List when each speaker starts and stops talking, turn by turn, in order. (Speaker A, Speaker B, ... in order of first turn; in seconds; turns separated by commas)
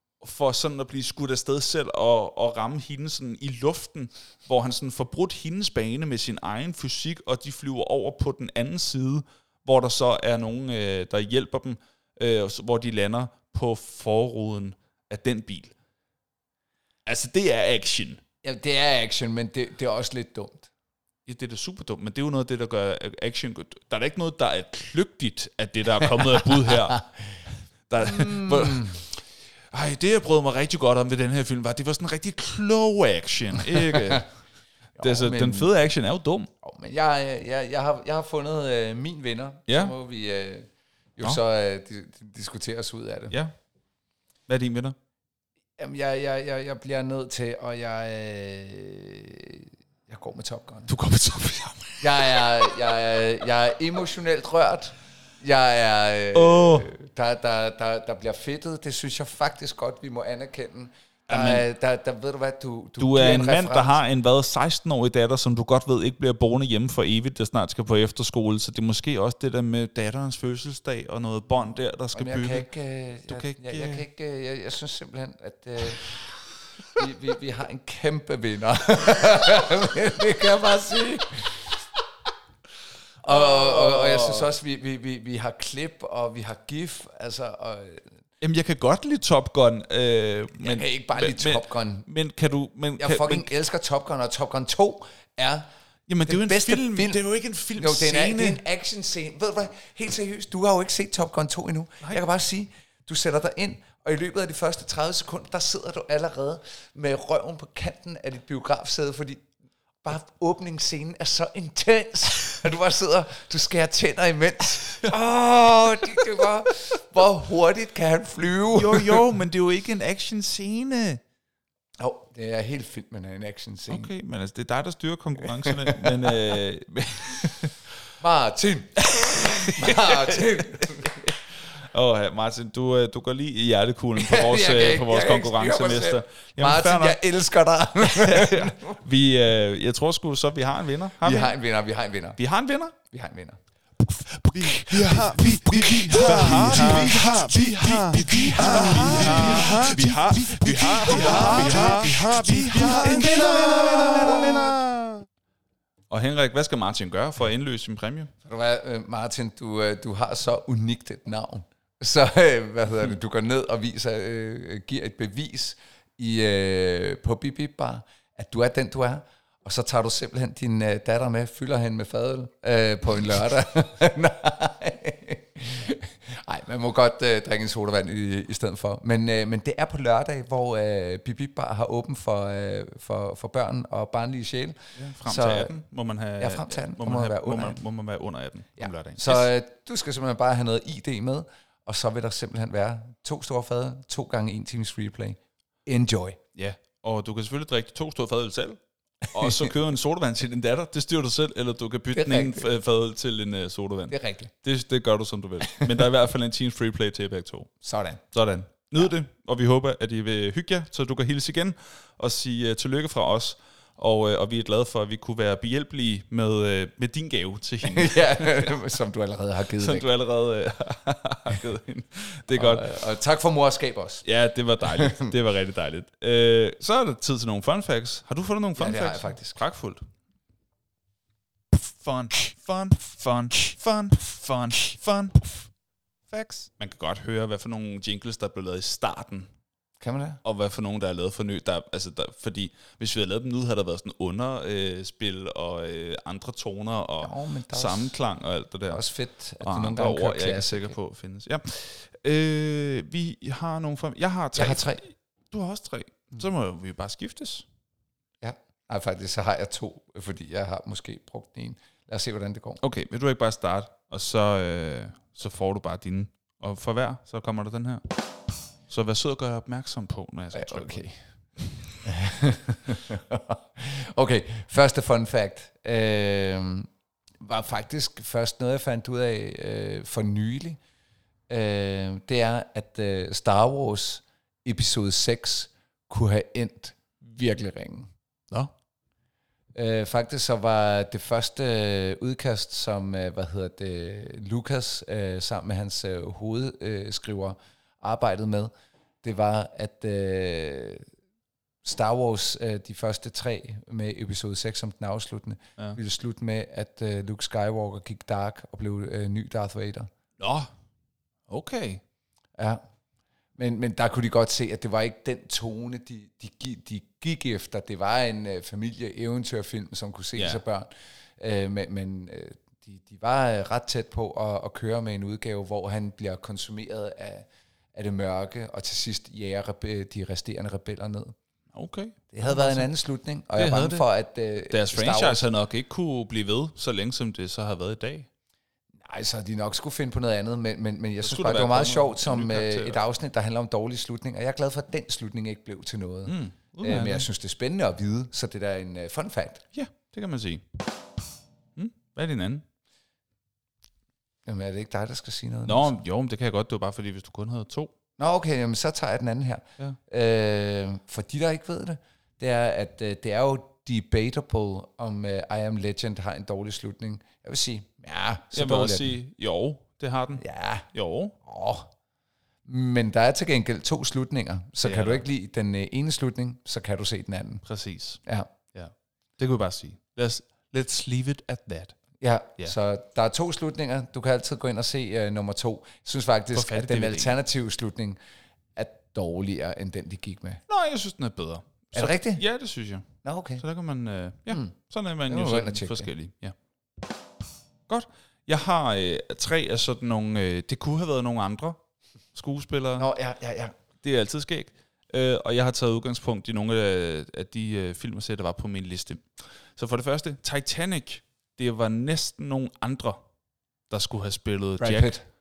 Speaker A: 0.2-15.7, Speaker A: 17.0-18.2, Speaker B: 18.4-20.7, Speaker A: 21.2-27.0, Speaker B: 26.6-27.4, Speaker A: 27.9-34.3, Speaker B: 28.0-29.0, Speaker B: 33.7-34.2, Speaker B: 35.0-35.7, Speaker A: 35.0-36.5, Speaker B: 36.6-43.4, Speaker A: 39.7-39.9, Speaker A: 44.5-45.0, Speaker B: 45.8-50.9, Speaker A: 50.9-53.0, Speaker B: 52.0-64.0, Speaker A: 56.3-56.9, Speaker A: 61.3-61.6, Speaker A: 63.0-72.7, Speaker B: 72.1-76.2, Speaker A: 73.3-74.0, Speaker B: 76.9-81.8, Speaker B: 83.2-88.1, Speaker A: 83.2-84.5, Speaker A: 88.4-93.5, Speaker B: 90.6-92.1, Speaker B: 93.0-95.7, Speaker A: 96.1-98.6, Speaker B: 96.2-97.2, Speaker B: 97.7-109.4, Speaker B: 110.0-119.2, Speaker A: 114.9-115.2, Speaker A: 116.0-116.5, Speaker A: 118.7-121.2, Speaker B: 122.0-124.1, Speaker A: 123.9-127.8, Speaker B: 125.5-126.4, Speaker B: 128.2-131.3, Speaker A: 129.0-137.2, Speaker B: 134.2-139.0, Speaker A: 138.0-141.6, Speaker B: 141.2-142.4, Speaker A: 142.4-142.9, Speaker B: 143.0-143.6, Speaker C: 144.5-155.2, Speaker B: 144.6-150.0, Speaker A: 145.1-145.6, Speaker A: 146.1-154.7, Speaker B: 151.0-154.6, Speaker A: 156.1-158.3, Speaker B: 158.4-185.7, Speaker A: 184.9-189.5, Speaker B: 186.4-187.8, Speaker B: 188.8-196.4, Speaker A: 196.5-207.7, Speaker B: 199.4-199.7, Speaker B: 202.1-202.7, Speaker B: 204.1-204.5, Speaker B: 205.6-205.9, Speaker B: 207.8-208.2, Speaker A: 208.3-218.8, Speaker B: 217.8-220.1, Speaker A: 219.8-223.0, Speaker B: 222.5-224.2, Speaker A: 224.2-230.0, Speaker B: 224.8-225.3, Speaker B: 228.8-229.6, Speaker A: 231.7-235.7, Speaker A: 236.3-239.5, Speaker B: 240.0-240.4, Speaker A: 240.4-249.0, Speaker B: 247.2-248.2, Speaker B: 248.9-250.9, Speaker A: 249.6-257.6, Speaker B: 254.5-255.0, Speaker B: 258.4-262.8, Speaker A: 262.8-268.0, Speaker A: 268.9-271.9, Speaker B: 270.5-271.2, Speaker B: 272.0-276.9, Speaker B: 277.4-280.8, Speaker B: 281.5-288.1, Speaker B: 289.7-298.7, Speaker B: 299.2-301.1, Speaker B: 301.8-310.1, Speaker A: 310.4-310.7, Speaker A: 311.5-312.0, Speaker B: 313.6-331.3, Speaker A: 320.3-320.6, Speaker A: 331.7-332.9, Speaker B: 332.3-335.4, Speaker A: 333.5-334.0, Speaker A: 334.7-338.3, Speaker B: 339.0-349.6, Speaker A: 341.2-343.0, Speaker A: 346.2-347.3, Speaker A: 349.7-350.6, Speaker A: 351.8-352.6, Speaker B: 354.4-356.0, Speaker A: 355.7-357.9, Speaker B: 358.2-369.1, Speaker A: 368.5-371.3, Speaker B: 370.4-370.9, Speaker B: 371.4-371.9, Speaker B: 372.6-377.6, Speaker A: 374.8-375.2, Speaker A: 377.6-378.2, Speaker A: 378.7-382.0, Speaker B: 382.2-388.2, Speaker A: 386.5-387.3, Speaker B: 388.8-390.6, Speaker A: 390.7-396.6, Speaker B: 391.9-392.4, Speaker B: 393.2-393.6, Speaker B: 394.5-394.7, Speaker B: 395.3-396.1, Speaker A: 397.9-401.8, Speaker A: 402.3-403.1, Speaker B: 403.0-403.7, Speaker A: 404.0-413.2, Speaker A: 413.9-415.2, Speaker B: 414.8-415.2